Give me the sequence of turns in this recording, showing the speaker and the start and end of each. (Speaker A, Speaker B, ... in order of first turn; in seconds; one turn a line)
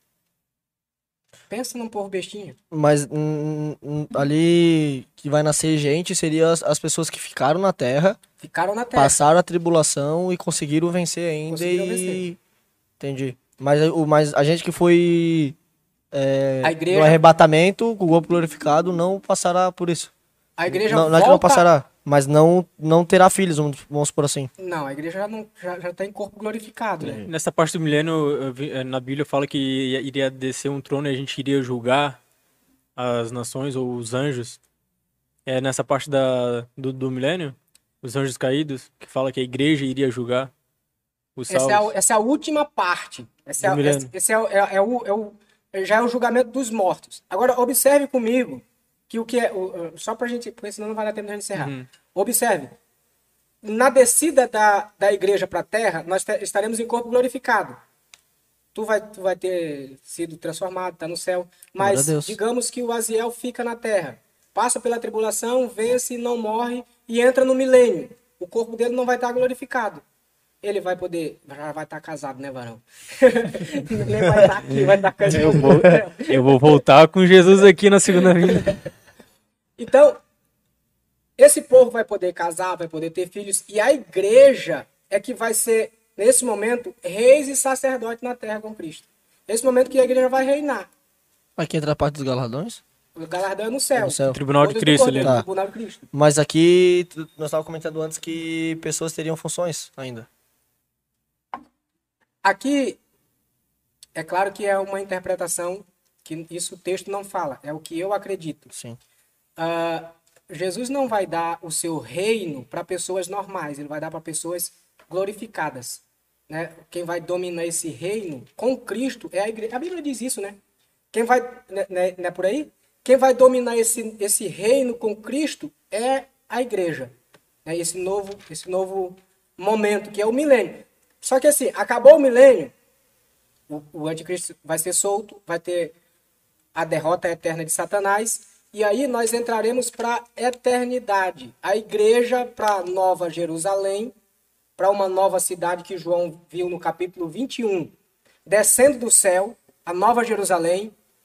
Speaker A: 1.5-2.6
Speaker B: 2.7-8.2
Speaker A: 8.4-9.2
Speaker B: 8.9-12.4
Speaker A: 11.5-12.3
Speaker B: 13.0-15.6
Speaker B: 16.1-20.1
Speaker A: 16.6-17.2
Speaker A: 20.6-21.7
Speaker B: 20.7-24.5
Speaker A: 24.6-27.2
Speaker B: 27.0-27.3
Speaker C: 27.3-32.2
Speaker C: 33.0-34.6
Speaker C: 35.5-40.5
Speaker C: 41.4-41.9
Speaker A: 41.5-52.7
Speaker C: 43.6-44.1
Speaker C: 51.5-51.9
Speaker A: 53.6-57.8
Speaker A: 58.7-70.0
Speaker B: 61.8-62.4
Speaker A: 70.6-76.5
Speaker C: 75.3-78.8
Speaker A: 79.8-80.2
Speaker A: 81.4-90.9
Speaker B: 91.6-92.8
Speaker A: 93.2-96.1
Speaker B: 94.0-94.4
Speaker C: 94.3-95.3
Speaker B: 95.1-95.5
Speaker B: 96.1-100.3
Speaker A: 102.4-103.0
Speaker A: 104.2-108.7
Speaker A: 109.6-120.6
Speaker A: 121.1-127.1
Speaker A: 127.7-132.7
Speaker A: 133.7-135.9
Speaker A: 136.7-144.2
Speaker A: 144.8-147.9
Speaker A: 148.4-150.9